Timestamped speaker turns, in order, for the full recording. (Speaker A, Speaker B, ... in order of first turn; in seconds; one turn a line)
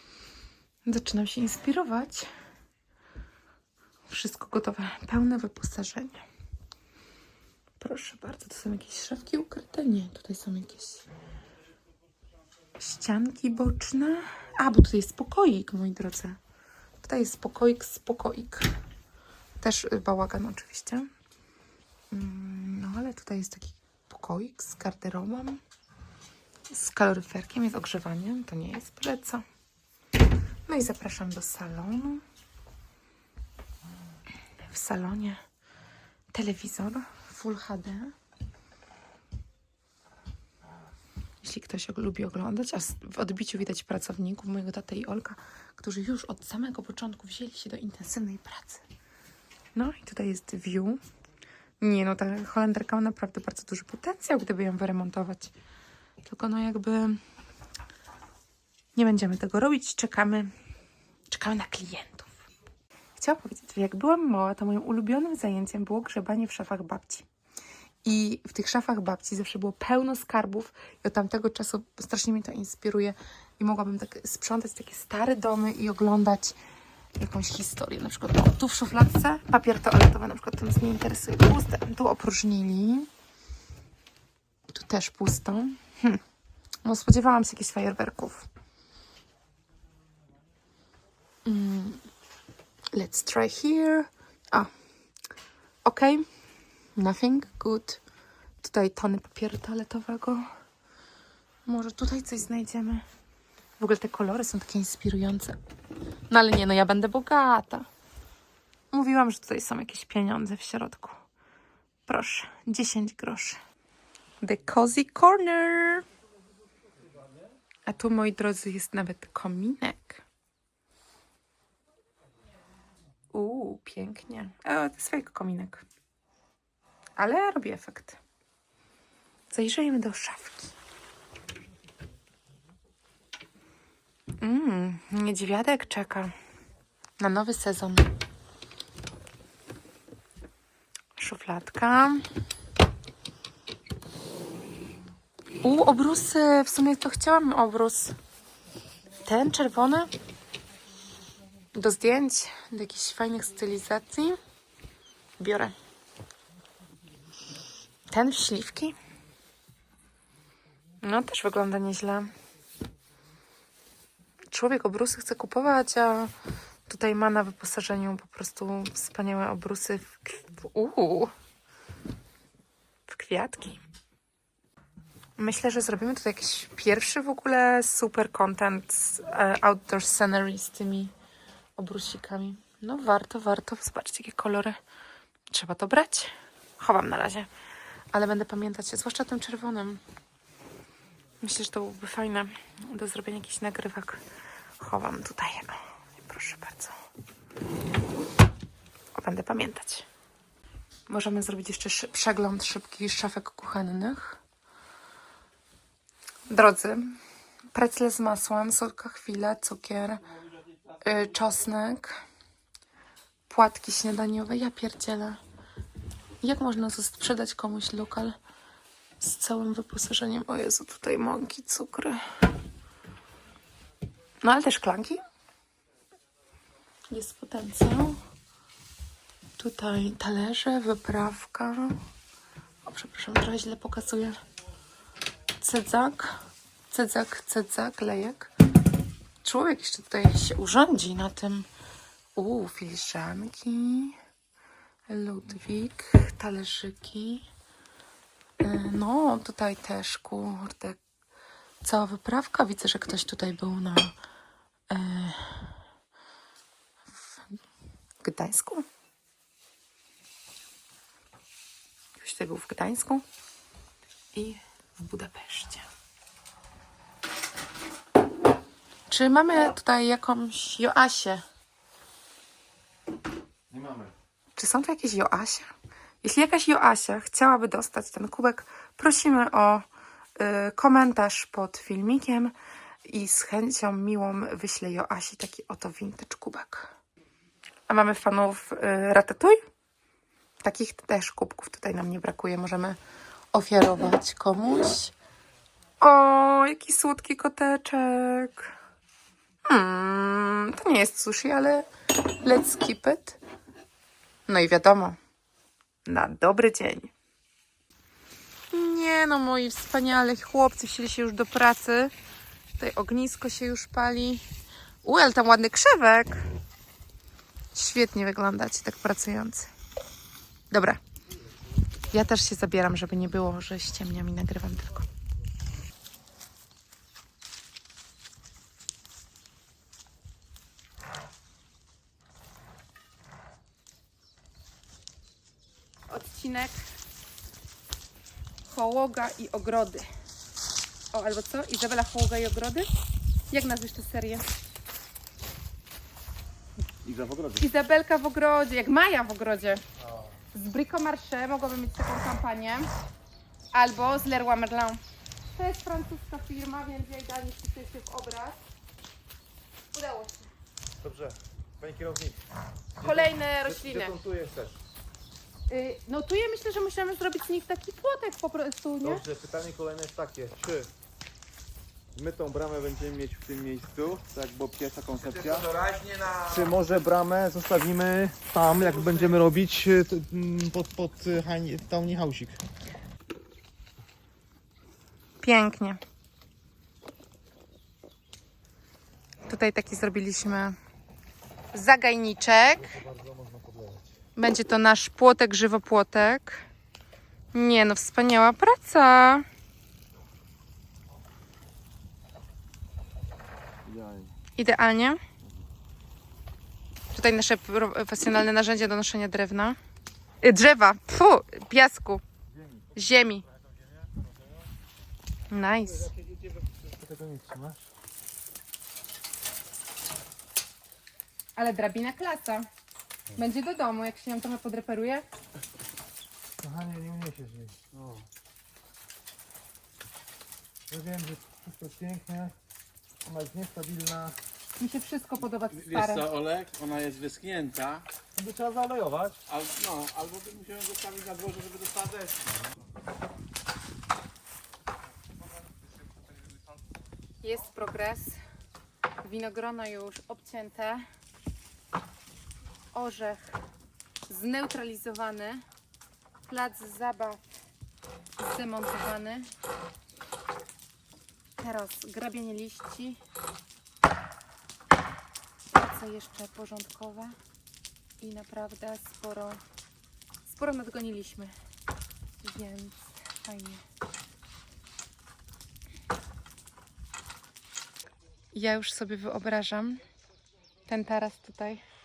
Speaker A: 0.8-2.3
Speaker A: 4.1-6.2
Speaker A: 7.8-11.0
Speaker A: 12.8-16.4
Speaker A: 17.0-18.7
Speaker A: 19.6-21.1
Speaker A: 22.1-25.6
Speaker A: 26.7-29.4
Speaker A: 30.7-32.2
Speaker A: 34.6-35.4
Speaker A: 36.3-38.1
Speaker A: 41.4-48.8
Speaker A: 49.7-51.0
Speaker A: 51.8-55.5
Speaker A: 56.2-57.2
Speaker A: 58.9-60.5
Speaker A: 61.3-62.4
Speaker A: 63.2-67.2
Speaker A: 68.0-76.5
Speaker A: 77.2-83.1
Speaker A: 84.7-86.2
Speaker A: 86.8-88.5
Speaker A: 91.4-92.0
Speaker A: 92.9-94.7
Speaker A: 95.8-96.2
Speaker A: 96.9-98.0
Speaker A: 98.6-100.5
Speaker A: 101.7-103.0
Speaker A: 103.8-105.6
Speaker A: 106.3-107.8
Speaker A: 108.9-111.2
Speaker A: 112.1-113.6
Speaker A: 114.4-116.0
Speaker A: 117.8-120.2
Speaker A: 123.3-125.8
Speaker A: 127.2-128.2
Speaker A: 129.5-130.7
Speaker A: 134.4-136.3
Speaker A: 137.2-138.1
Speaker A: 141.2-142.2
Speaker A: 145.6-148.2
Speaker A: 149.2-150.1
Speaker A: 151.7-154.4
Speaker A: 155.4-155.7
Speaker A: 158.1-158.9
Speaker A: 161.0-162.3
Speaker A: 164.5-166.3
Speaker A: 166.9-171.3
Speaker A: 173.1-173.8
Speaker A: 175.4-181.1
Speaker A: 181.8-184.8
Speaker A: 185.5-187.5
Speaker A: 188.1-190.0
Speaker A: 191.4-194.2
Speaker A: 194.8-196.9
Speaker A: 199.1-200.1
Speaker A: 201.1-204.4
Speaker A: 206.5-207.2
Speaker A: 207.7-210.2
Speaker A: 211.0-212.2
Speaker A: 213.5-215.4
Speaker A: 216.4-218.3
Speaker A: 219.2-222.2
Speaker A: 224.4-225.2
Speaker A: 227.1-228.2
Speaker A: 229.6-232.0
Speaker A: 232.8-234.3
Speaker A: 235.6-236.4
Speaker A: 236.9-238.5
Speaker A: 239.4-241.7
Speaker A: 242.3-244.2
Speaker A: 245.1-247.4
Speaker A: 248.6-251.0
Speaker A: 251.8-254.1
Speaker A: 254.9-255.7
Speaker A: 258.2-258.8
Speaker A: 262.2-263.2
Speaker A: 264.3-265.9
Speaker A: 269.1-271.4
Speaker B: 273.7-274.1
Speaker A: 274.6-275.7
Speaker A: 276.2-282.5
Speaker A: 283.0-286.9
Speaker A: 287.9-289.6
Speaker A: 290.6-293.0
Speaker A: 293.5-295.1
Speaker A: 296.0-298.7
Speaker A: 299.6-303.4
Speaker A: 304.5-305.2
Speaker A: 306.1-307.1
Speaker A: 308.7-312.1
Speaker A: 312.8-314.4
Speaker A: 315.0-316.5
Speaker A: 317.7-319.7
Speaker A: 320.7-321.0
Speaker A: 322.1-325.1
Speaker A: 336.1-336.9
Speaker A: 338.6-340.1
Speaker A: 341.1-342.9
Speaker A: 343.5-344.5
Speaker B: 347.0-347.6
Speaker A: 347.6-349.8
Speaker A: 350.5-352.9
Speaker A: 353.7-355.0
Speaker A: 355.5-358.6
Speaker A: 359.9-360.5
Speaker B: 361.0-362.4
Speaker B: 363.0-364.8
Speaker A: 363.0-364.2
Speaker A: 365.7-369.2
Speaker B: 369.0-370.9
Speaker B: 372.1-375.7
Speaker B: 376.4-382.6
Speaker A: 385.4-386.0
Speaker A: 389.5-390.7
Speaker A: 391.7-393.0
Speaker B: 393.1-394.0
Speaker A: 394.4-396.6
Speaker A: 397.5-399.4
Speaker B: 403.9-404.3
Speaker A: 404.6-405.2
Speaker A: 407.1-409.8
Speaker A: 410.4-412.2
Speaker A: 412.9-413.4
Speaker A: 415.5-416.1
Speaker B: 417.0-417.8
Speaker A: 421.6-422.7
Speaker A: 423.3-425.2
Speaker B: 426.6-427.7
Speaker B: 430.9-432.5
Speaker B: 433.3-434.3
Speaker A: 434.8-436.3
Speaker C: 435.8-438.1
Speaker B: 438.4-439.4
Speaker C: 439.5-442.4
Speaker A: 447.4-448.4
Speaker A: 449.2-451.1
Speaker A: 452.9-453.6
Speaker A: 454.3-455.6
Speaker A: 456.4-457.4
Speaker A: 458.4-459.5
Speaker A: 461.6-463.2
Speaker A: 465.7-467.4
Speaker A: 468.2-469.6
Speaker A: 470.4-471.5
Speaker A: 472.4-473.8
Speaker A: 478.5-480.0
Speaker A: 480.9-481.8